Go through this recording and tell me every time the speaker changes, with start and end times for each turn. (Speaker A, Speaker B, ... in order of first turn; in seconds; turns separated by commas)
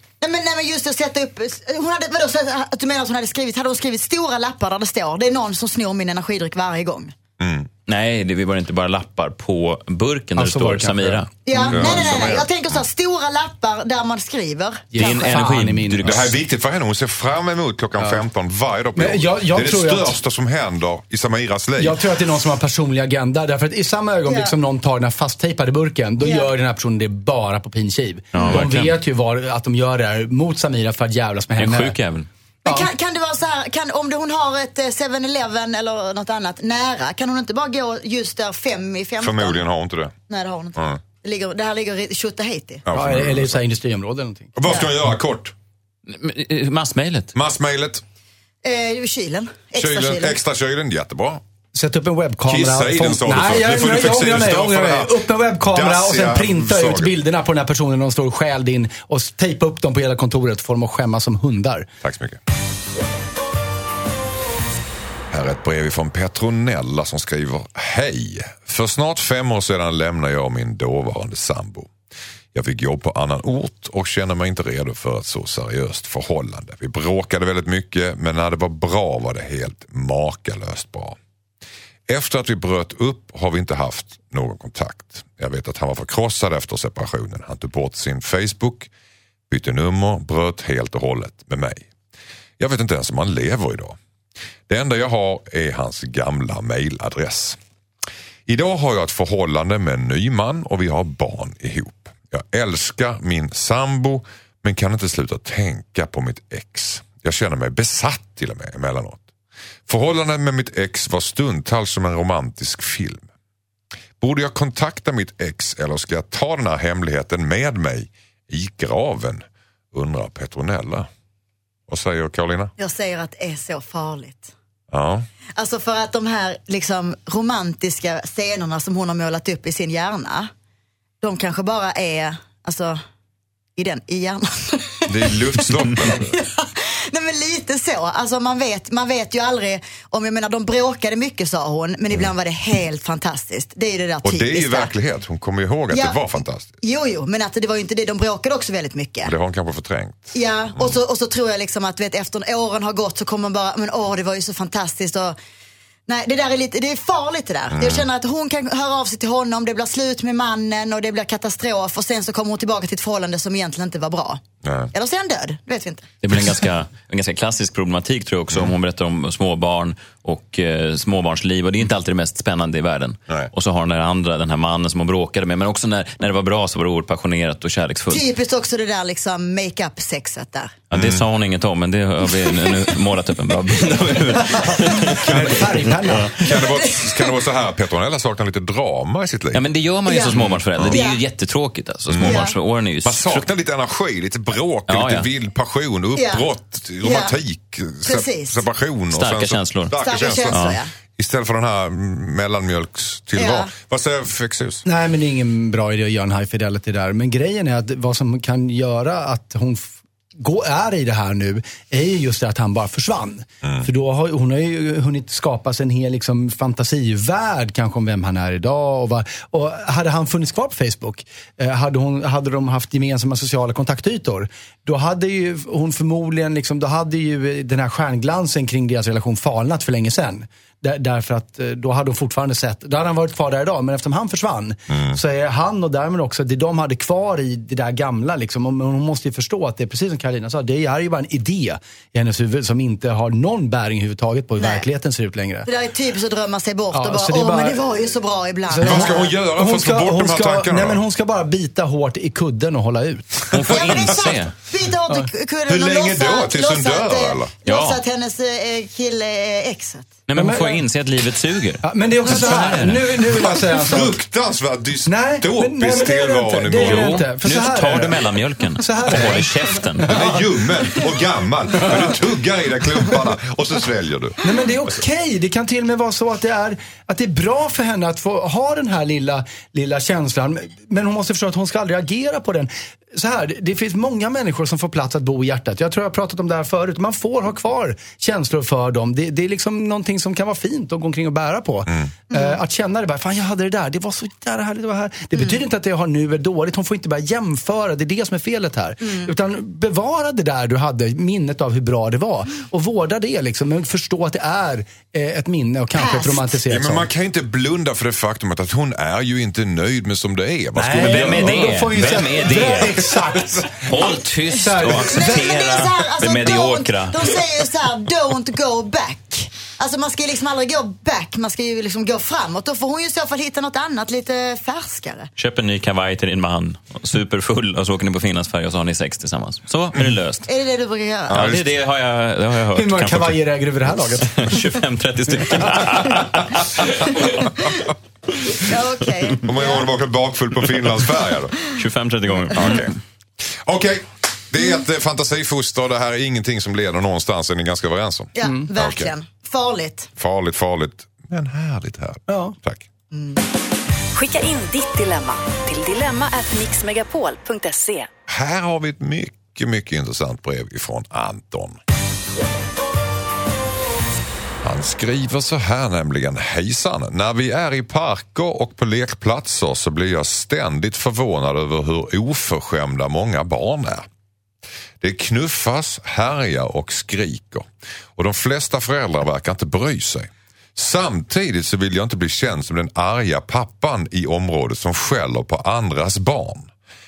Speaker A: 0.2-7.2, Speaker B: 7.4-7.7, Speaker C: 7.9-11.3, Speaker D: 10.4-12.4, Speaker A: 11.5-15.2, Speaker B: 11.7-12.5, Speaker D: 14.9-16.2, Speaker C: 15.0-16.4, Speaker B: 16.0-22.0, Speaker D: 19.0-20.2, Speaker D: 21.8-32.0, Speaker A: 24.3-24.6, Speaker A: 26.2-26.5, Speaker C: 28.3-29.0, Speaker C: 31.6-32.3, Speaker D: 32.6-32.9, Speaker A: 32.6-39.6, Speaker B: 39.2-40.1, Speaker A: 40.3-42.8, Speaker B: 42.9-43.6, Speaker D: 42.9-44.5, Speaker B: 44.5-45.5, Speaker C: 46.1-47.3, Speaker B: 47.3-48.0, Speaker A: 48.6-50.4, Speaker B: 49.8-51.4, Speaker D: 51.7-61.9, Speaker B: 52.5-57.1, Speaker B: 62.0-62.4, Speaker B: 65.3-71.9, Speaker B: 72.5-81.2, Speaker B: 82.1-88.9, Speaker B: 89.5-91.9, Speaker B: 92.6-94.0, Speaker B: 94.7-97.6, Speaker B: 98.5-109.2, Speaker B: 109.9-113.3, Speaker B: 114.2-121.1, Speaker B: 121.9-122.7, Speaker A: 122.8-124.5, Speaker B: 124.9-125.3, Speaker A: 125.6-130.5, Speaker A: 131.2-133.0, Speaker A: 133.8-144.9, Speaker B: 135.1-136.4, Speaker B: 144.2-146.8, Speaker A: 145.9-146.2, Speaker A: 146.8-149.3, Speaker B: 149.2-151.0, Speaker A: 150.3-155.4, Speaker A: 156.1-166.1, Speaker B: 157.7-158.1, Speaker B: 164.6-164.9, Speaker C: 166.2-178.3, Speaker A: 178.1-180.8, Speaker C: 180.9-186.3, Speaker B: 180.9-181.2, Speaker D: 184.4-186.4, Speaker B: 186.3-189.6, Speaker A: 186.4-187.3, Speaker C: 189.5-193.5, Speaker A: 190.1-191.2, Speaker B: 190.3-191.0, Speaker B: 192.1-192.5, Speaker A: 192.2-192.6, Speaker B: 193.0-204.8, Speaker C: 194.9-195.3, Speaker A: 196.2-196.5, Speaker A: 197.0-197.4, Speaker A: 198.1-198.6, Speaker C: 199.1-200.0, Speaker A: 200.0-200.9, Speaker C: 200.5-200.8, Speaker A: 203.4-203.7, Speaker D: 204.8-245.7, Speaker B: 234.9-235.2, Speaker A: 244.6-244.8, Speaker A: 245.7-249.3, Speaker D: 246.9-247.8, Speaker D: 248.7-253.7, Speaker B: 248.8-251.0, Speaker C: 253.5-254.5, Speaker A: 253.7-260.1, Speaker B: 255.7-257.5, Speaker C: 257.6-258.0, Speaker C: 260.3-263.1, Speaker D: 260.3-260.8, Speaker D: 261.8-264.2, Speaker B: 263.1-267.2, Speaker D: 265.1-268.2, Speaker C: 266.8-270.1, Speaker D: 268.8-270.5, Speaker B: 270.1-274.4, Speaker D: 274.4-307.1, Speaker A: 292.3-292.6, Speaker A: 299.0-299.3, Speaker A: 305.9-306.6, Speaker B: 306.7-313.7, Speaker D: 310.8-315.5, Speaker C: 310.9-313.1, Speaker C: 313.8-317.5, Speaker A: 314.7-325.3, Speaker C: 325.4-330.5, Speaker A: 330.5-331.5, Speaker B: 331.3-331.7, Speaker C: 331.3-333.4, Speaker D: 332.7-334.6, Speaker C: 333.9-337.7, Speaker A: 338.5-339.9, Speaker B: 339.4-341.6, Speaker C: 341.7-342.9, Speaker B: 342.5-342.9, Speaker B: 343.6-349.1, Speaker A: 348.4-350.1, Speaker D: 348.4-348.7, Speaker B: 350.2-352.8, Speaker D: 352.3-352.6, Speaker A: 353.1-353.4, Speaker E: 354.1-358.1, Speaker B: 358.3-361.8, Speaker B: 364.6-374.1, Speaker B: 375.0-386.7